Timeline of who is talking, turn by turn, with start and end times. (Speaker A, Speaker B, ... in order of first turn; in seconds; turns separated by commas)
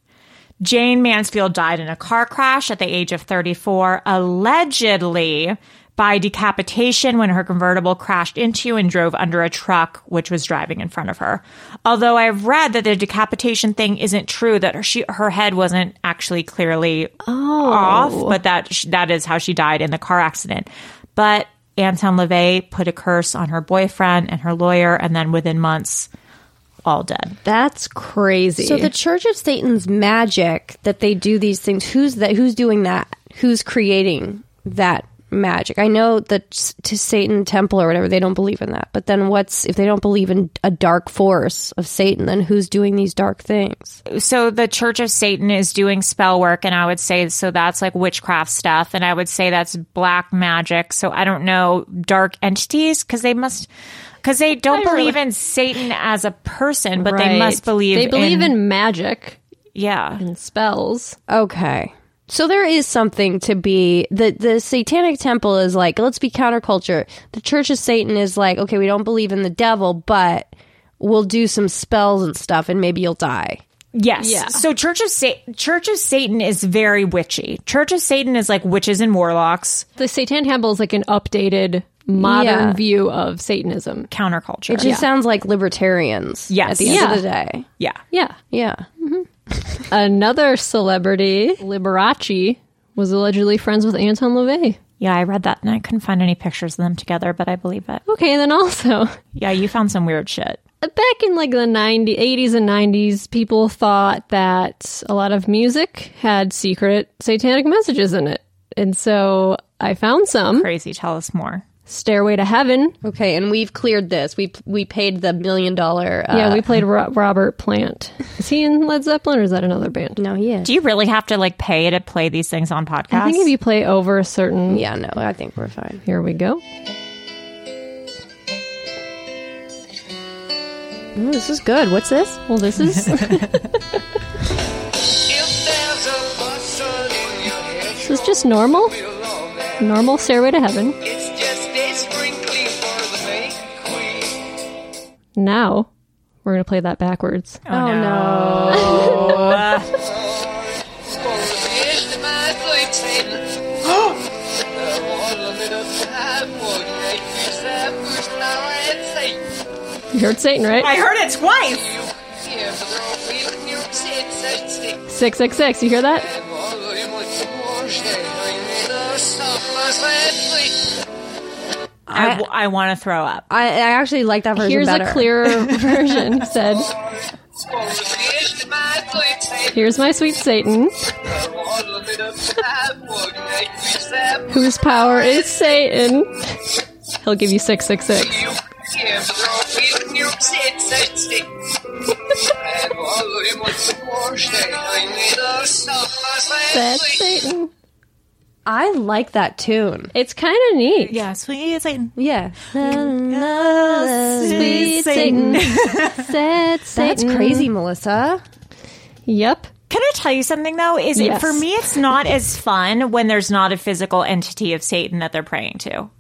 Speaker A: 0.6-26.1, Speaker B: 17.2-18.4, Speaker A: 26.9-27.4, Speaker B: 27.4-28.9, Speaker C: 28.6-44.0, Speaker A: 44.1-53.7, Speaker A: 54.2-58.5, Speaker B: 54.7-55.2, Speaker B: 57.0-59.4, Speaker A: 59.8-60.2, Speaker B: 60.2-61.2, Speaker C: 61.3-73.6, Speaker A: 73.9-79.8, Speaker B: 74.2-74.6, Speaker B: 80.0-84.1, Speaker C: 82.2-82.8, Speaker A: 84.1-85.0, Speaker C: 84.7-87.7, Speaker A: 86.5-87.2, Speaker B: 86.8-87.2, Speaker B: 88.1-88.4, Speaker C: 88.5-88.9, Speaker B: 89.9-94.8, Speaker A: 95.0-98.0, Speaker B: 98.1-99.2, Speaker A: 99.3-100.6, Speaker B: 100.8-110.7, Speaker A: 110.5-111.6, Speaker B: 111.9-113.0, Speaker C: 113.0-116.7, Speaker B: 116.3-120.2, Speaker C: 120.2-120.7, Speaker A: 120.6-123.5, Speaker B: 123.1-124.8, Speaker C: 124.7-126.0, Speaker B: 126.0-126.6, Speaker C: 131.2-132.4, Speaker B: 132.5-133.6, Speaker B: 138.0-139.0, Speaker B: 139.8-141.0, Speaker B: 145.4-145.9, Speaker B: 146.4-147.6, Speaker A: 147.7-149.9, Speaker C: 147.7-149.6, Speaker B: 148.8-149.2, Speaker A: 153.8-154.2, Speaker B: 160.1-160.9, Speaker A: 160.8-161.9, Speaker B: 165.1-166.3, Speaker C: 172.1-172.4, Speaker A: 172.1-173.5, Speaker C: 173.5-175.6, Speaker B: 174.6-176.9, Speaker B: 179.7-181.0, Speaker B: 184.5-186.6, Speaker B: 187.2-188.5, Speaker B: 196.7-197.7, Speaker C: 198.7-200.1, Speaker B: 200.1-201.2, Speaker A: 201.1-202.1, Speaker C: 202.2-205.6, Speaker A: 202.8-206.3, Speaker B: 204.4-207.7, Speaker C: 206.9-208.4, Speaker B: 209.3-209.7, Speaker A: 209.9-216.1, Speaker B: 211.2-211.7